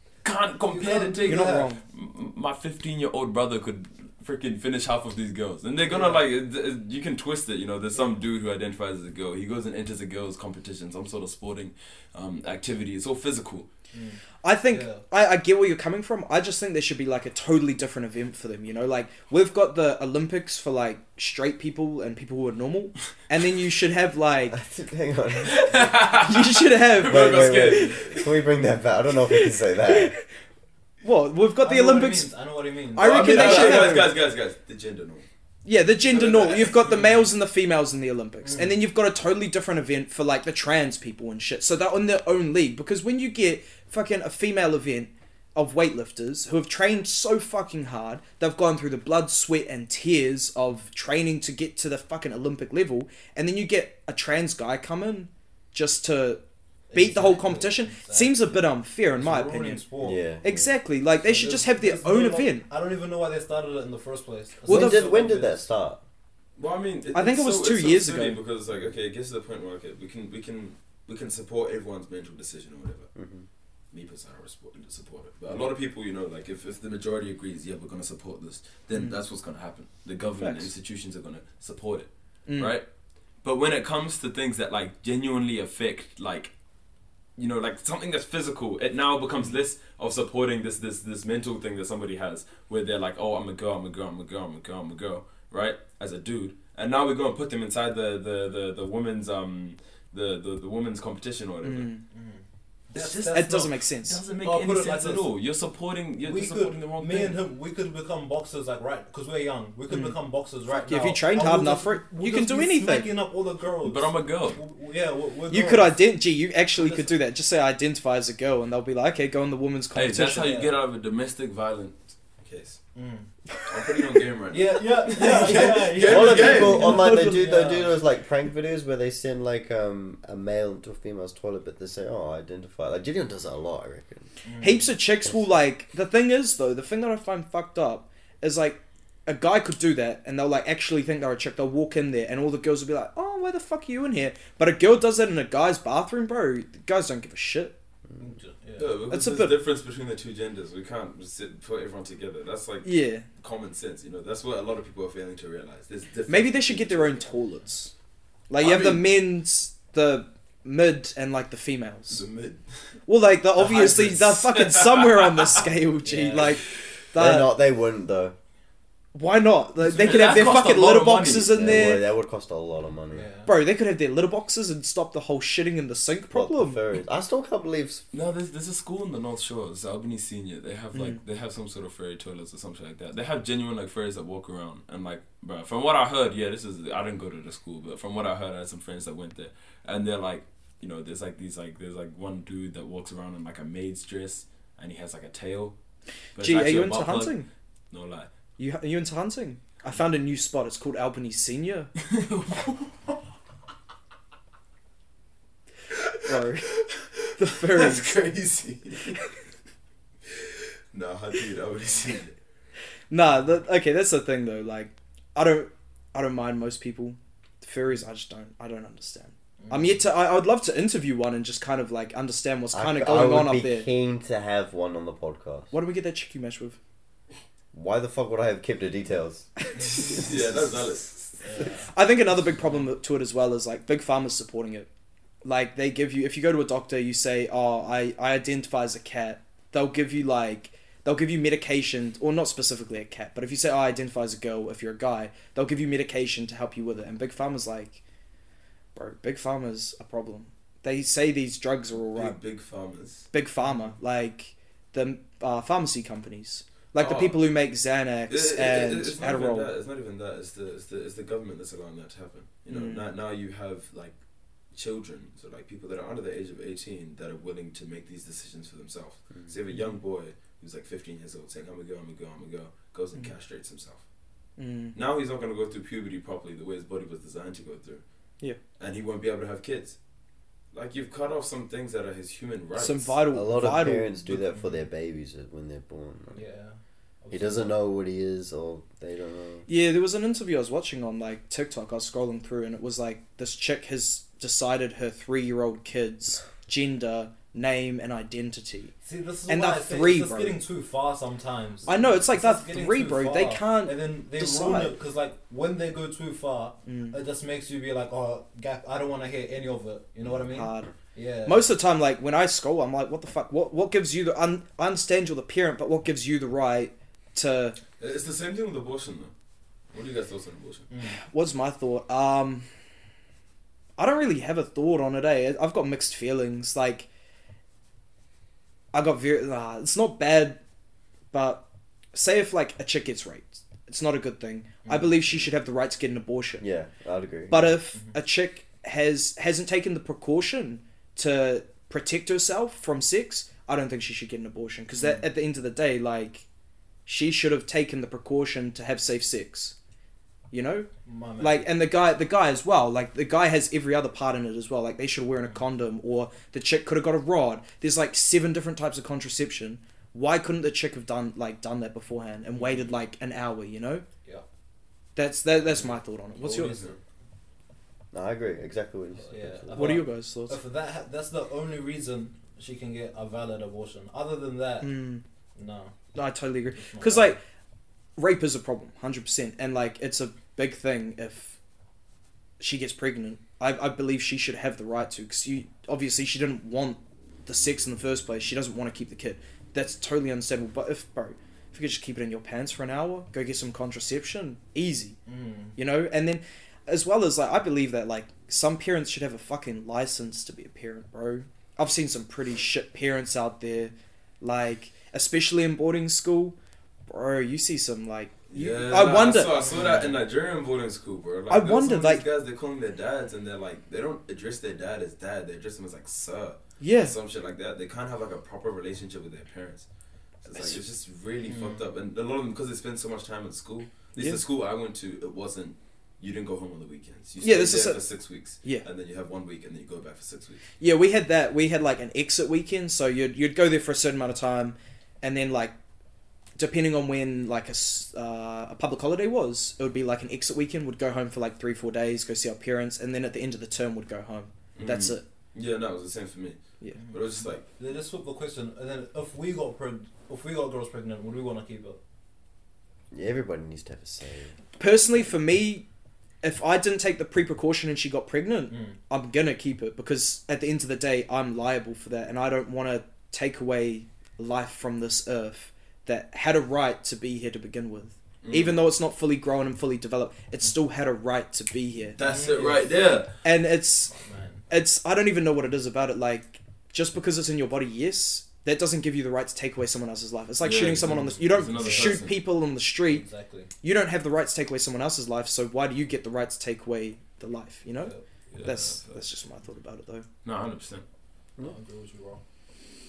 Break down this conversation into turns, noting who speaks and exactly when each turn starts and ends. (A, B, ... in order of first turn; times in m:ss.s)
0:00.2-0:13.7 A
0:00.6-0:01.7 B
0:01.2-0:01.8 C
0:05.8-0:06.2 B
0:13.9-0:15.0 B
0:14.4-0:24.6 C
0:24.5-0:25.8 D
0:25.4-0:28.2 A
0:26.2-0:28.2 C
0:27.0-0:30.1 D
0:29.3-0:30.2 C
0:31.0-0:32.3 C
0:31.6-0:34.1 B
0:32.9-0:34.1 C
0:33.0-0:35.2 A
0:35.6-0:56.4 C
0:36.0-0:37.1 A
0:38.4-0:38.7 B
0:56.9-0:58.6 B
0:56.9-0:59.8 C
0:59.1-1:00.2 B
1:00.0-1:00.7 D
1:00.4-1:02.7 C
1:01.2-1:05.7 B
1:04.7-1:05.1 C
1:04.7-1:06.0 D
1:06.6-1:13.1 A
1:07.1-1:08.4 C
1:13.1-1:13.4 D
1:13.9-1:22.8 A
1:20.2-1:20.7 C
1:22.5-1:22.7 C
1:23.4-1:26.5 A
1:27.4-1:41.9 A
1:41.6-1:42.0 C
1:42.1-1:43.6 B
1:42.9-1:47.4 A
1:43.2-1:44.2 C
1:44.4-1:45.3 B
1:46.2-1:56.0 B
1:49.9-1:50.2 C
1:50.7-1:53.1 C
1:53.8-1:54.6 A
1:55.5-2:00.6 C
1:56.8-1:57.1 B
1:59.9-2:02.8 A
2:00.4-2:00.7 B
2:02.9-2:03.3 B
2:03.7-2:07.0 A
2:04.5-2:08.0 B
2:05.2-2:05.6 C
2:06.0-2:14.3 D
2:06.2-2:07.7 C
2:14.4-2:14.9 B
2:14.6-2:27.8 C
2:28.2-2:28.9 B
2:28.8-2:37.3 A
2:29.1-2:29.6 C
2:32.8-2:33.2 C
2:36.3-2:37.9 C
2:38.5-2:42.2 C
2:38.6-2:39.2 A
2:42.1-2:42.6 A
2:43.1-2:47.5 C
2:43.6-2:45.6 A
2:46.0-2:46.5 B
2:47.2-2:48.3 D
2:49.1-2:52.1 C
2:49.8-2:51.7 A
2:51.5-2:53.3 D
2:53.1-2:53.5 B
2:53.4-2:56.8 C
2:56.3-2:58.0 D
2:58.1-3:15.8 A
3:00.9-3:01.2 C
3:16.4-3:18.3 A
3:16.4-3:17.5 C
3:18.6-3:21.9 C
3:22.0-3:23.1 A
3:25.9-3:29.2 A
3:26.2-3:26.7 C
3:27.4-3:28.2 C
3:30.3-3:32.3 A
3:33.1-3:43.9 C
3:39.6-3:40.0 B
3:42.7-3:45.7 D
3:45.7-3:46.8 C
3:47.7-3:49.5 D
3:50.0-3:51.4 A
3:51.4-3:51.9 B
3:51.6-3:54.9 C
3:55.4-4:08.0 C
4:08.9-4:12.4 C
4:12.1-4:13.3 A
4:13.3-4:19.7 C
4:13.6-4:13.9 B
4:17.0-4:17.4 A
4:18.3-4:24.2 A
4:22.7-4:23.1 C
4:24.7-4:34.0 A
4:34.6-4:34.9 C
4:34.9-4:38.0 A
4:38.8-4:40.0 A
4:40.7-4:43.2 A
4:42.8-4:44.3 C
4:43.3-4:46.4 D
4:44.4-4:44.8 B
4:46.3-4:47.8 B
4:47.3-4:49.7 D
4:49.7-4:58.9 C
4:59.0-5:11.6 B
4:59.5-5:00.6 C
5:01.8-5:04.9 C
5:06.8-5:07.2 C
5:10.4-5:10.9 C
5:11.4-5:17.8 C
5:18.0-5:19.3 A
5:19.9-5:20.9 A
5:20.9-5:21.2 B
5:21.2-5:22.7 C
5:24.0-5:27.1 C
5:28.9-5:30.6 C
5:31.3-5:36.6 C
5:34.8-5:35.1 B
5:36.6-5:37.7 D
5:37.5-5:46.4 C
5:45.0-5:45.2 B
5:47.0-5:49.7 C
5:50.5-5:50.9 C
5:51.0-5:51.7 B
5:51.4-6:04.0 C
6:02.5-6:02.9 B
6:05.2-6:06.8 C
6:06.4-6:07.0 B
6:06.5-6:06.9 A
6:08.1-6:10.0 D
6:09.2-6:15.0 B
6:09.7-6:10.6 C
6:14.8-6:15.2 C
6:15.6-6:15.9 B
6:16.1-6:17.4 C
6:16.7-6:17.4 B
6:18.2-6:21.6 C
6:22.6-6:35.2 C
6:35.3-6:35.8 B
6:35.8-6:46.6 C
6:47.1-6:49.6 C
6:48.5-6:59.9 A
6:49.6-6:50.2 B
6:51.5-6:52.2 C
6:56.8-6:57.1 C
7:00.4-7:10.6 A
7:01.4-7:01.8 B
7:07.4-7:08.1 C
7:10.8-7:15.7 C
7:16.6-7:25.2 C
7:24.8-7:27.6 A
7:27.0-7:32.0 B
7:33.1-7:34.5 D
7:34.8-7:35.8 C
7:36.4-7:52.2 C
7:38.7-7:39.0 B
7:48.4-7:48.8 A
7:52.2-7:53.3 A
7:52.2-7:53.0 B
7:53.4-7:54.1 C
7:54.1-7:54.6 B
7:54.7-8:03.2 C
8:00.6-8:02.4 A
8:01.2-8:02.2 B
8:03.0-8:03.7 B
8:03.8-8:10.3 C
8:08.5-8:09.2 A
8:10.4-8:11.0 A
8:11.6-8:12.4 B